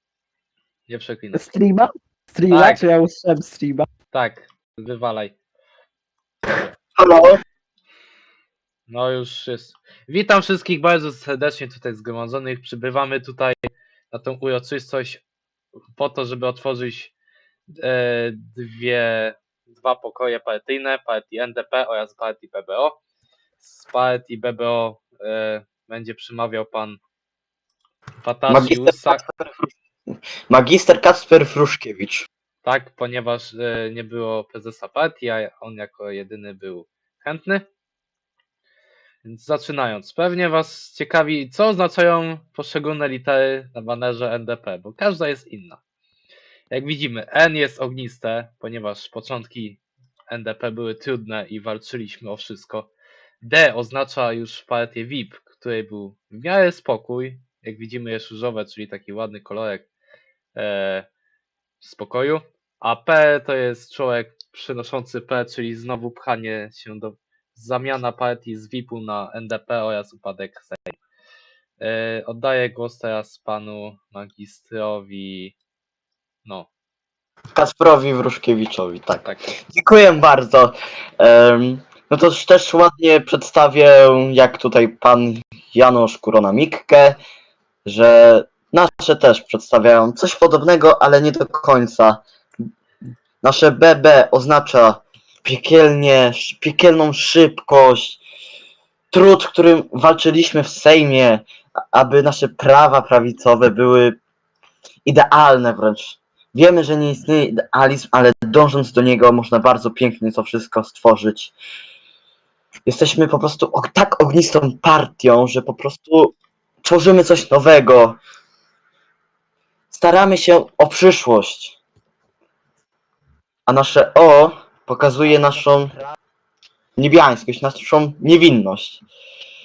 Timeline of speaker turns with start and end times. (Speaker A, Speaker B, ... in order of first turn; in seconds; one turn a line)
Speaker A: 0.9-1.5
Speaker B: 1.3-3.9
Speaker A: 2.5-2.9
Speaker A: 4.1-5.3
Speaker C: 7.0-7.4
Speaker A: 8.9-15.2
Speaker A: 15.9-17.1
Speaker A: 17.7-23.0
Speaker A: 23.6-27.0
Speaker A: 28.2-29.2
Speaker C: 28.5-32.3
Speaker A: 32.6-37.6
Speaker A: 39.2-45.8
Speaker A: 46.7-49.8
Speaker A: 50.3-52.9
Speaker A: 53.4-59.9
Speaker A: 60.5-61.1
Speaker A: 61.8-71.0
Speaker A: 71.8-75.6
Speaker A: 76.4-76.7
Speaker C: 77.5-87.2
Speaker C: 87.8-92.2
Speaker C: 93.4-98.2
Speaker C: 99.1-104.2
Speaker C: 105.0-111.5
Speaker C: 112.8-118.2
Speaker C: 119.9-121.8
Speaker C: 123.7-126.0
Speaker C: 127.0-129.0